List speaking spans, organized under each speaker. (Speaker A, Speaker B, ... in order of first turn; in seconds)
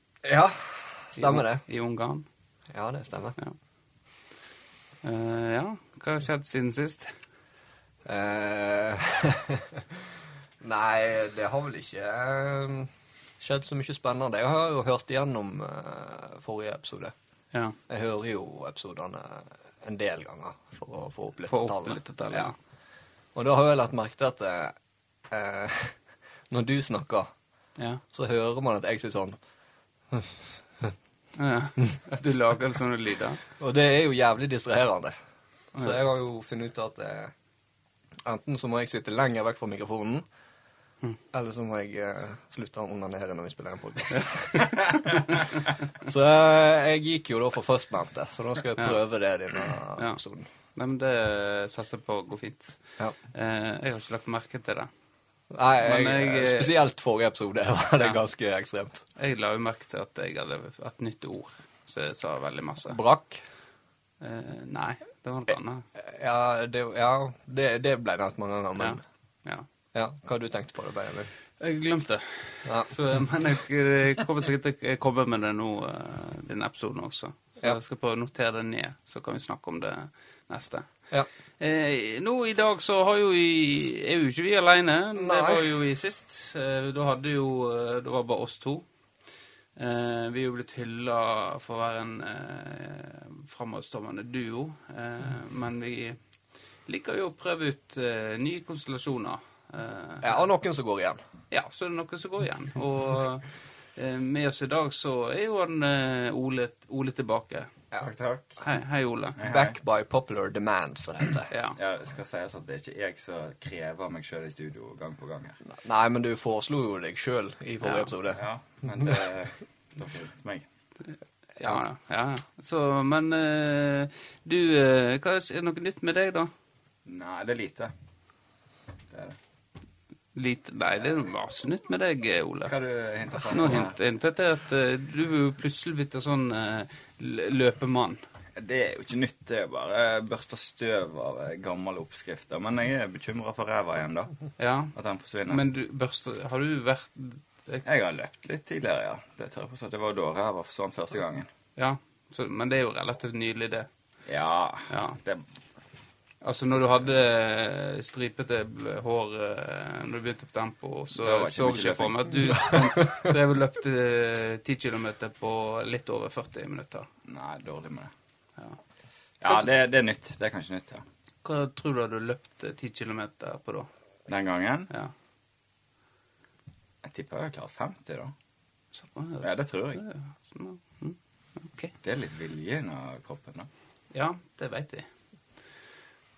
Speaker A: 0.2-1.7, 2.7-3.4, 8.1-10.1, 10.6-17.1, 17.9-30.9, 33.6-37.3, 38.2-40.2, 41.3-44.7, 46.0-50.5, 55.5-59.0, 62.9-63.5, 66.0-69.0, 69.9-71.3, 72.7-72.9, 85.2-85.7, 100.2-101.2, 109.4-111.5, 115.6-118.5
Speaker B: 1.1-2.3, 3.4-4.3, 5.0-7.2, 17.5-17.8, 21.5-22.6, 27.8-28.0, 31.4-33.4, 48.8-49.4, 50.0-54.9, 55.8-56.8, 59.1-63.0, 64.2-65.9, 68.8-69.7, 71.6-88.9, 89.8-100.5, 101.5-107.7, 108.6-109.4, 111.5-111.8, 117.8-118.1, 121.0-126.5, 130.3-132.8, 133.3-138.2, 144.6-144.9, 145.5-147.9, 151.8-153.9, 154.9-155.2, 156.4-167.1, 171.4-173.9, 178.9-181.9, 184.1-185.8
Speaker C: 108.0-108.6, 109.4-109.8, 111.8-115.6, 118.3-120.7, 127.0-127.9, 129.1-129.4, 132.7-134.0, 138.6-145.6, 147.8-151.5, 154.3-155.5, 156.8-157.1, 161.1-162.8, 167.3-168.1, 169.4-171.0, 174.3-174.9, 177.0-178.3, 179.4-180.0, 182.0-183.7